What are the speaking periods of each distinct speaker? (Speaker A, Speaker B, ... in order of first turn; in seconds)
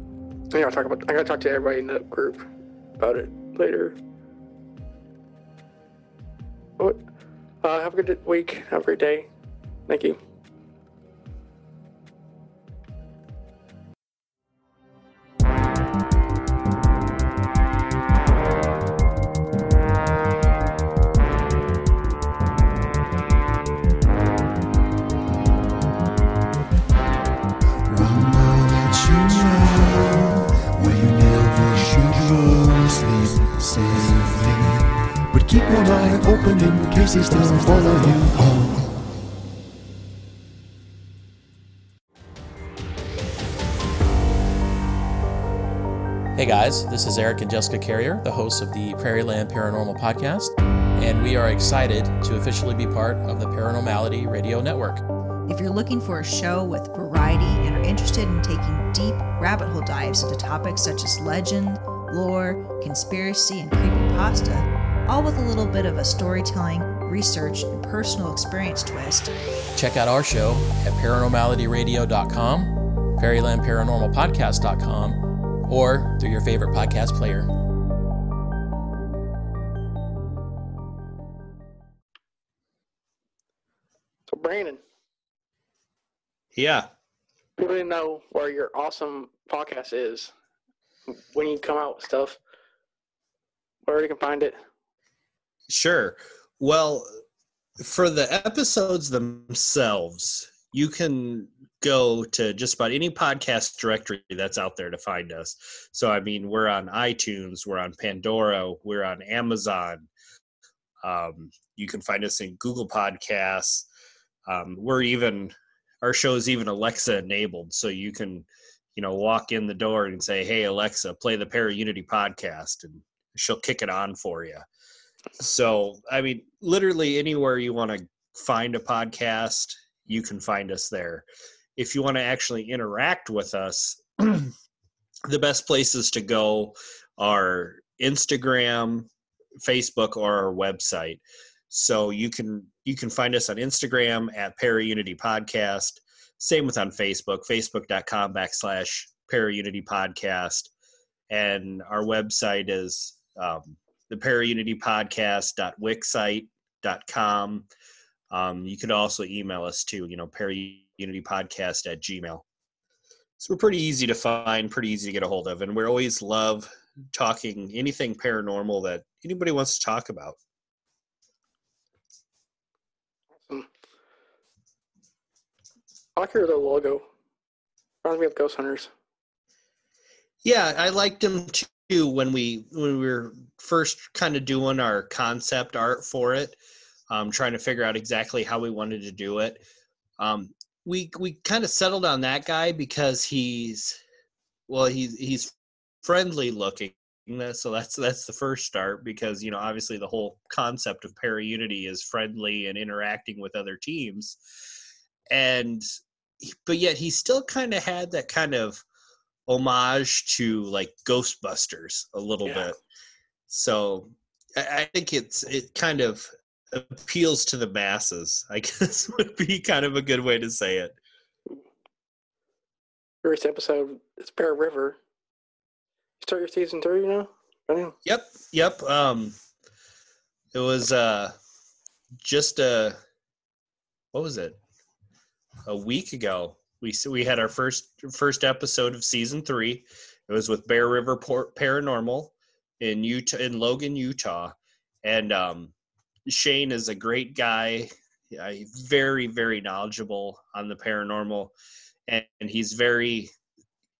Speaker A: 0.5-2.5, 3.0-4.0, 7.6-9.3, 9.9-10.2, 84.3-84.8, 87.6-90.3, 91.1-92.4, 93.9-94.6, 176.2-177.1, 178.0-178.9, 223.2-225.0, 226.2-227.9
Speaker B: 27.9-38.9
Speaker C: 46.4-55.0, 69.8-77.5
Speaker D: 55.5-69.3
Speaker E: 86.6-86.9, 95.7-97.1, 97.8-110.1, 111.0-113.9, 114.5-124.7, 125.4-134.5, 135.3-139.1, 139.6-150.7, 151.3-157.7, 158.3-162.4, 163.4-170.4, 180.4-186.6, 187.1-189.6, 190.2-194.0, 194.7-195.5, 196.0-204.4, 205.3-205.9, 206.4-208.8, 209.5-212.8, 213.5-221.0, 228.1-229.4, 230.5-231.3, 232.2-233.0, 234.1-234.6, 235.7-245.7, 246.3-251.5, 252.1-253.3